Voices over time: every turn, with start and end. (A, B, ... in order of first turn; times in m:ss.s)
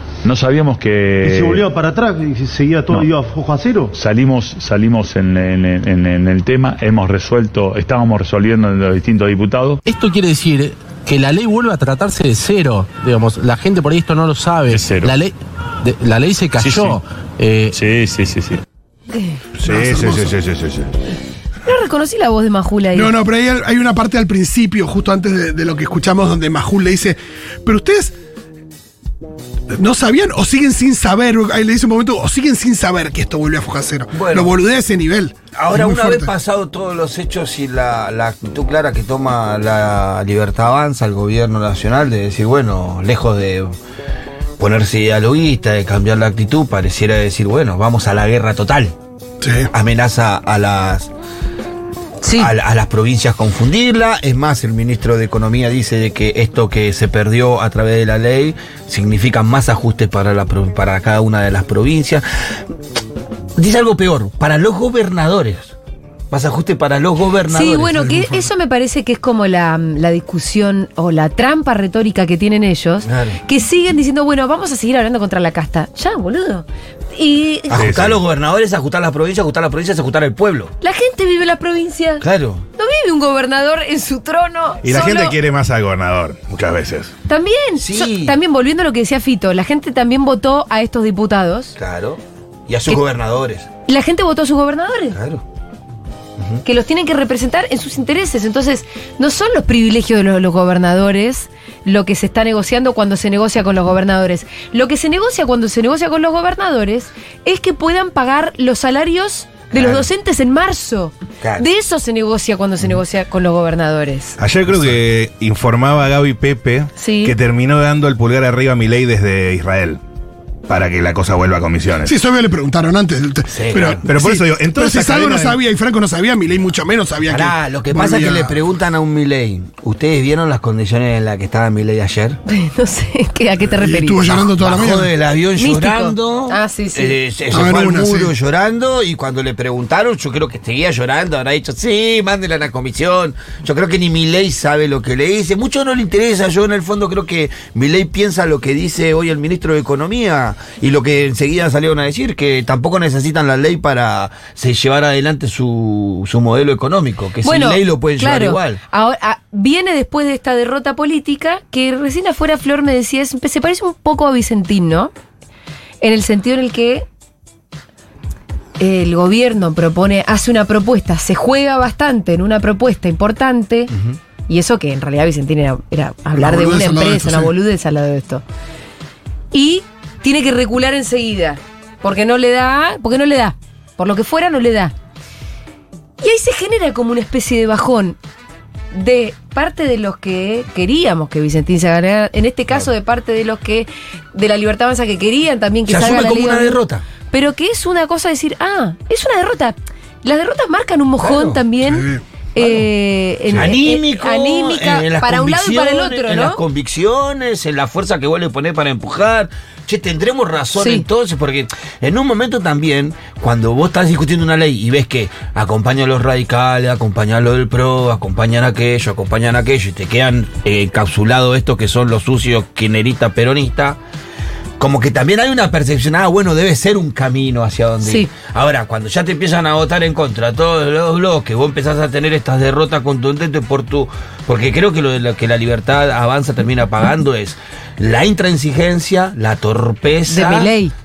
0:00.2-0:01.7 A
0:01.2-0:04.0 B
0:03.9-0:09.8 A
0:09.8-0:17.8 C
0:14.7-0:15.2 A
0:16.6-0:17.0 A
0:17.7-0:18.6 A
0:19.6-0:20.9 D
0:19.7-0:20.3 E
0:21.7-0:23.1 F
0:22.9-0:28.1 E
0:29.7-0:36.3 E
0:34.1-0:34.5 G
0:35.6-0:43.7 G
0:44.6-0:48.9 G
0:49.4-0:49.7 E
0:49.7-0:51.1 G
0:52.2-0:52.5 F
0:52.4-1:02.2 G
1:03.6-1:05.8 G
1:06.3-1:08.3 G
1:07.5-1:17.8 F
1:13.1-1:13.4 G
1:17.7-1:20.7 G
1:17.7-1:18.2 D
1:20.8-1:22.2 F
1:22.2-1:22.7 G
1:22.8-1:25.4 F
1:24.8-1:27.1 D
1:27.3-1:31.8 F
1:27.8-1:28.4 G
1:31.8-1:33.7 G
1:33.9-1:35.2 F
1:35.1-1:35.4 G
1:36.6-1:54.4 F
1:49.7-1:50.1 G
1:54.4-2:00.0 D
1:57.0-1:57.4 F
2:00.7-2:02.1 D
2:02.0-2:08.6 E
2:03.5-2:04.0 G
2:04.1-2:05.6 D
2:07.2-2:12.4 G
2:12.5-2:14.4 F
2:13.7-2:15.1 E
2:14.6-2:38.8 G
2:15.6-2:17.2 F
2:17.5-2:18.3 E
2:37.4-2:45.1 F
2:46.0-2:47.0 F
2:48.8-2:53.9 F
2:54.5-2:58.4 F
2:56.4-2:57.5 E
2:59.5-3:04.9 F
3:06.2-3:08.2 F
3:08.9-3:16.8 F
3:15.9-3:17.0 G
3:17.3-3:26.6 F
3:21.2-3:21.6 G
3:21.8-3:22.2 E
3:23.5-3:44.0 G
3:30.8-3:31.0 F
3:44.8-4:00.7 G
3:48.0-3:48.3 F
4:00.3-4:00.9 F